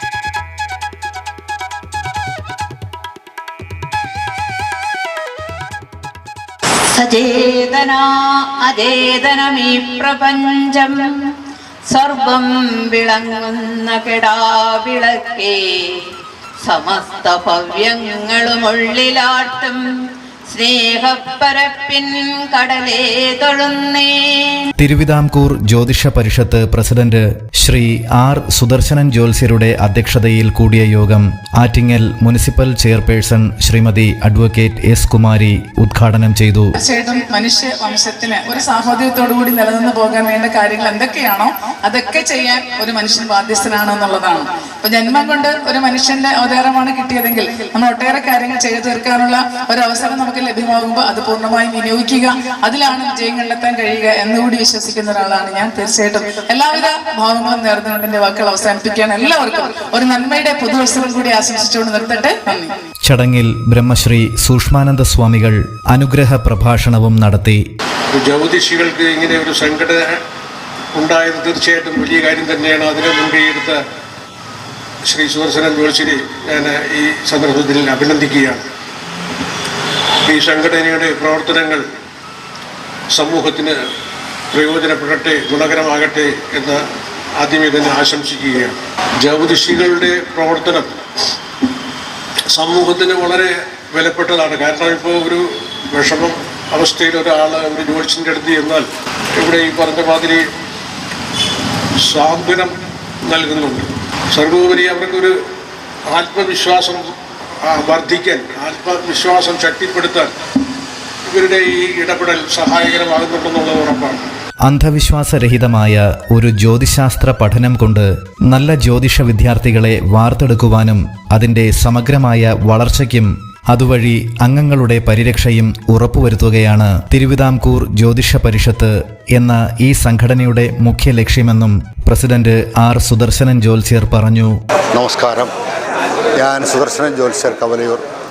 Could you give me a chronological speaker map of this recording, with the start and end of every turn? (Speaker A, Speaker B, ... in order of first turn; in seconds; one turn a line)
Speaker A: 6.9-11.3
Speaker A: 11.9-16.1
Speaker A: 16.6-19.8
Speaker A: 20.5-24.7
Speaker B: 24.8-36.7
Speaker C: 36.8-62.7
Speaker B: 63.1-67.6
Speaker D: 68.1-70.2
Speaker D: 71.0-73.8
Speaker D: 75.1-78.6
Speaker D: 80.3-81.9
Speaker D: 83.1-83.8
Speaker D: 84.5-86.8
Speaker D: 87.4-91.0
Speaker D: 92.5-100.4
Speaker D: 102.0-102.7
Speaker D: 103.3-105.3
Speaker D: 106.1-107.1
Speaker D: 107.7-110.3
Speaker D: 111.3-114.3
Speaker B: 114.7-134.5
Speaker E: 134.9-135.5
Speaker E: 136.4-138.0